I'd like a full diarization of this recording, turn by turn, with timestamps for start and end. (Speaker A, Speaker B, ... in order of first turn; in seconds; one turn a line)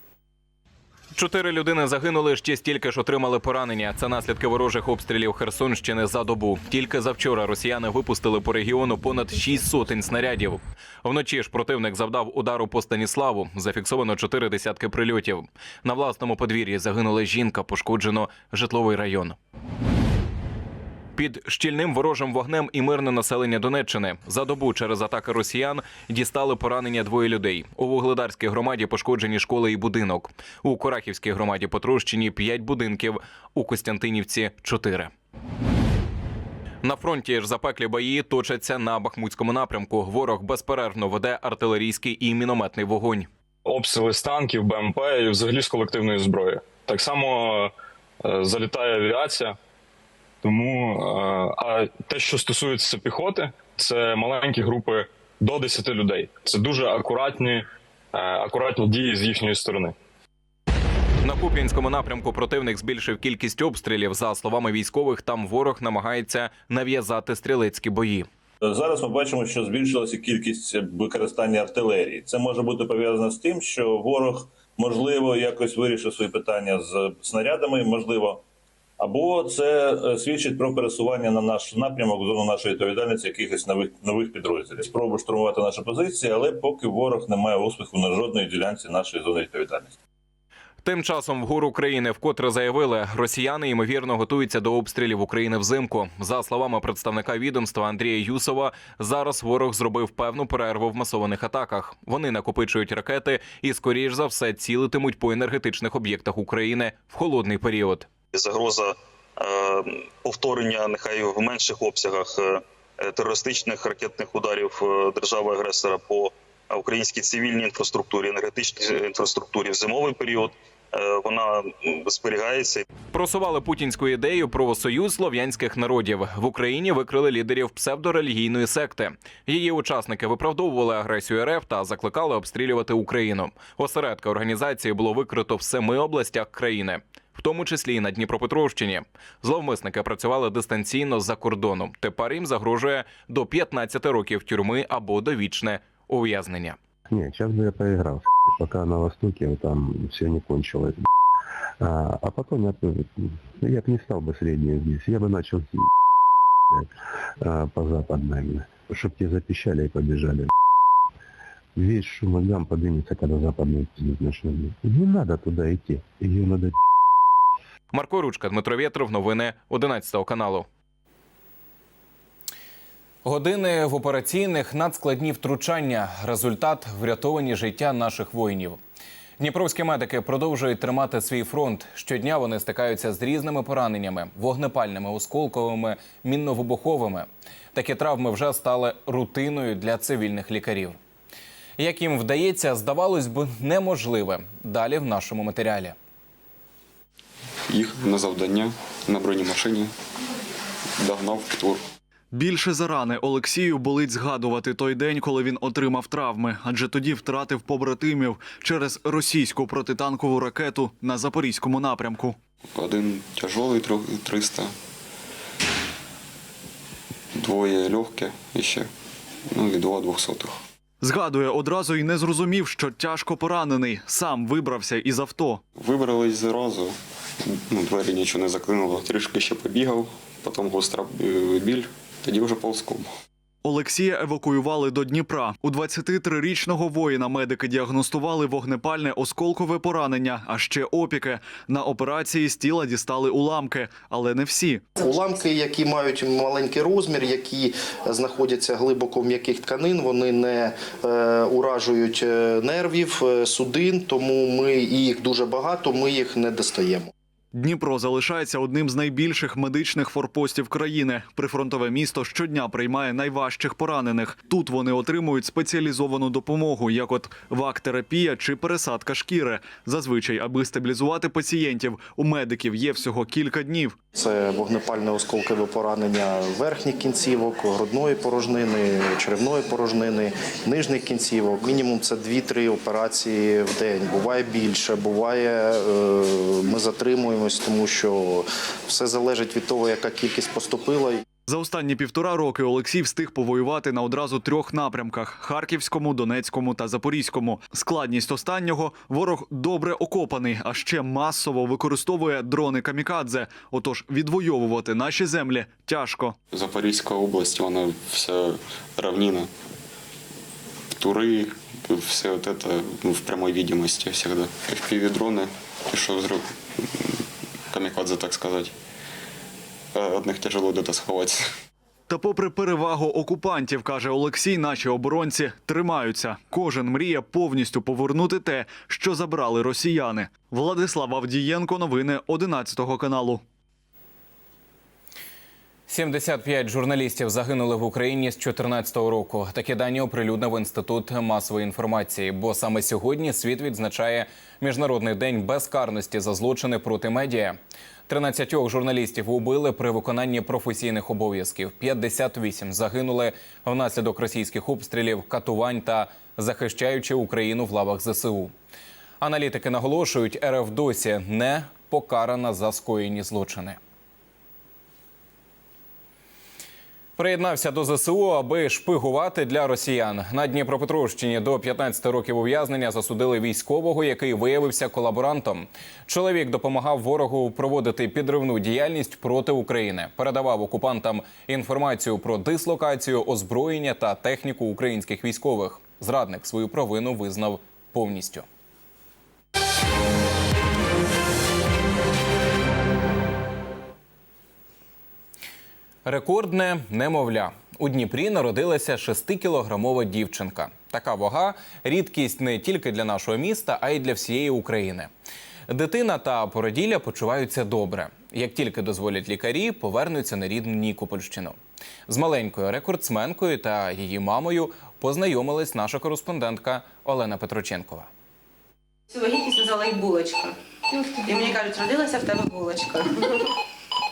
Speaker A: 1.1-19.4
Speaker A: 21.2-35.1
Speaker A: 36.8-43.3
Speaker B: 43.7-47.7
Speaker B: 48.2-49.5
Speaker B: 50.4-59.9
Speaker A: 61.2-68.3
Speaker C: 68.7-78.4
Speaker C: 79.0-89.9
Speaker A: 90.8-108.1
Speaker D: 108.3-122.8
Speaker A: 123.1-146.8
Speaker E: 147.1-151.0
Speaker E: 151.8-155.9
Speaker E: 157.4-160.5
Speaker E: 161.8-166.8
Speaker A: 167.9-170.7
Speaker A: 173.2-178.8
Speaker A: 179.4-191.0
Speaker A: 191.8-196.0
Speaker F: 197.7-199.9
Speaker F: 201.0-201.8
Speaker G: 202.3-212.3
Speaker F: 212.8-214.7
Speaker F: 217.3-218.9
Speaker F: 219.5-220.6
Speaker G: 221.0-225.6
Speaker F: 225.8-233.1
Speaker G: 233.7-244.8
Speaker H: 245.0-257.1
Speaker G: 257.5-274.0
Speaker H: 274.1-291.2
Speaker G: 291.5-306.4
Speaker F: 306.5-309.5
Speaker F: 311.0-318.7
Speaker F: 319.9-321.4
Speaker G: 322.1-333.4
Speaker A: 335.9-358.5
Speaker A: 359.2-363.8
Speaker A: 367.2-388.4
Speaker A: 396.1-405.1
Speaker A: 405.7-411.6
Speaker A: 412.1-418.1
Speaker I: 419.1-423.4